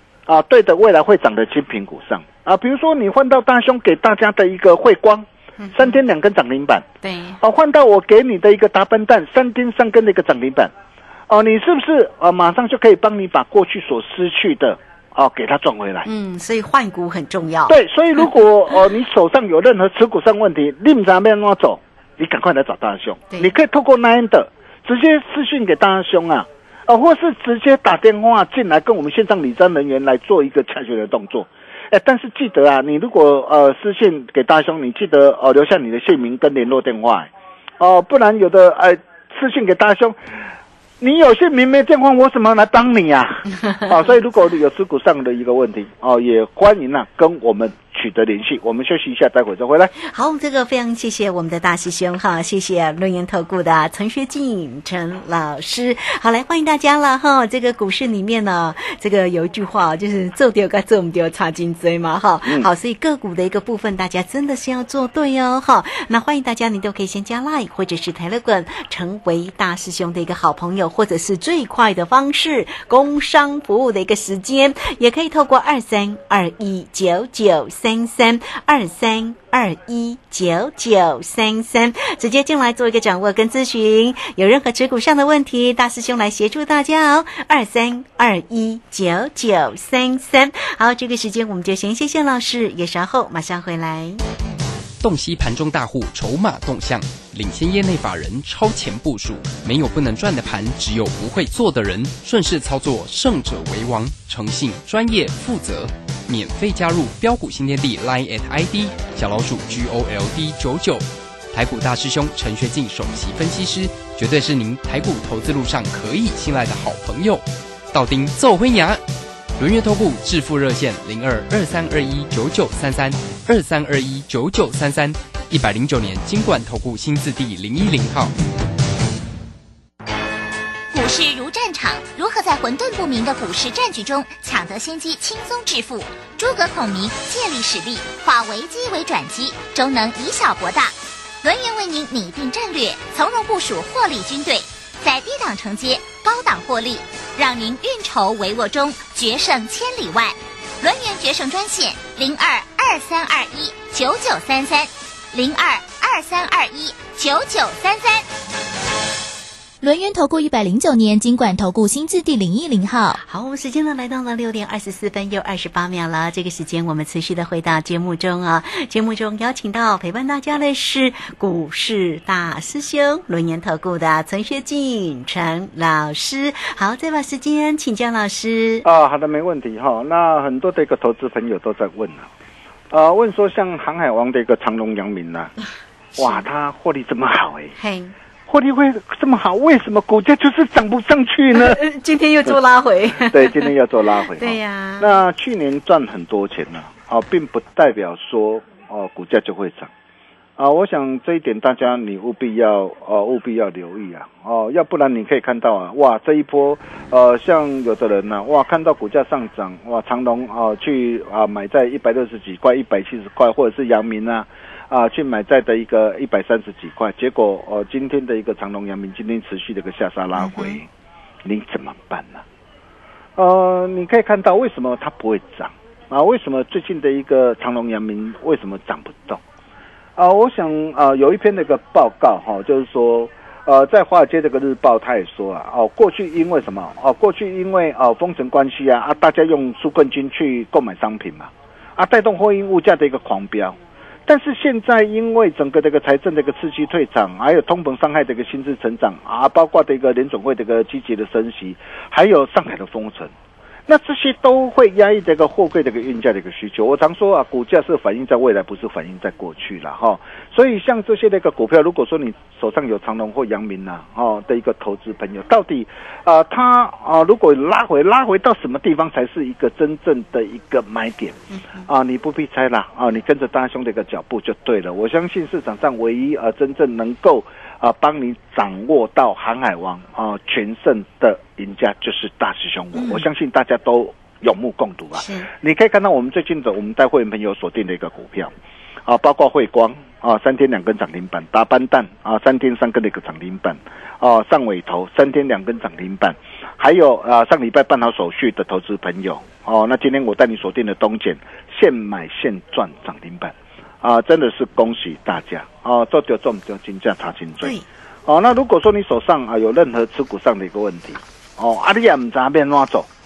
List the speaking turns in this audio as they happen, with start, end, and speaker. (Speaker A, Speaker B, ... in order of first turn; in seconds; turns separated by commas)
Speaker A: 0.3-6.9, Speaker B: 5.6-6.0, Speaker B: 7.0-7.4, Speaker A: 7.4-10.7, Speaker A: 11.3-16.1, Speaker B: 16.1-17.8, Speaker A: 17.7-40.2, Speaker A: 41.0-49.9, Speaker B: 50.0-94.2, Speaker C: 95.0-119.0, Speaker C: 119.6-128.3, Speaker D: 130.9-158.3, Speaker E: 159.8-163.2, Speaker B: 163.2-178.8, Speaker A: 178.8-182.3, Speaker A: 182.9-185.5, Speaker A: 186.2-187.8, Speaker B: 186.2-186.4, Speaker B: 187.8-188.2, Speaker A: 188.5-191.8, Speaker B: 191.6-193.7, Speaker A: 193.2-199.9, Speaker B: 194.3-195.2, Speaker A: 200.6-220.9, Speaker B: 220.4-220.8, Speaker A: 221.4-222.4, Speaker A: 223.4-229.4, Speaker A: 230.2-253.3, Speaker A: 253.9-288.5, Speaker B: 283.0-283.2, Speaker B: 285.1-285.5, Speaker A: 289.1-313.1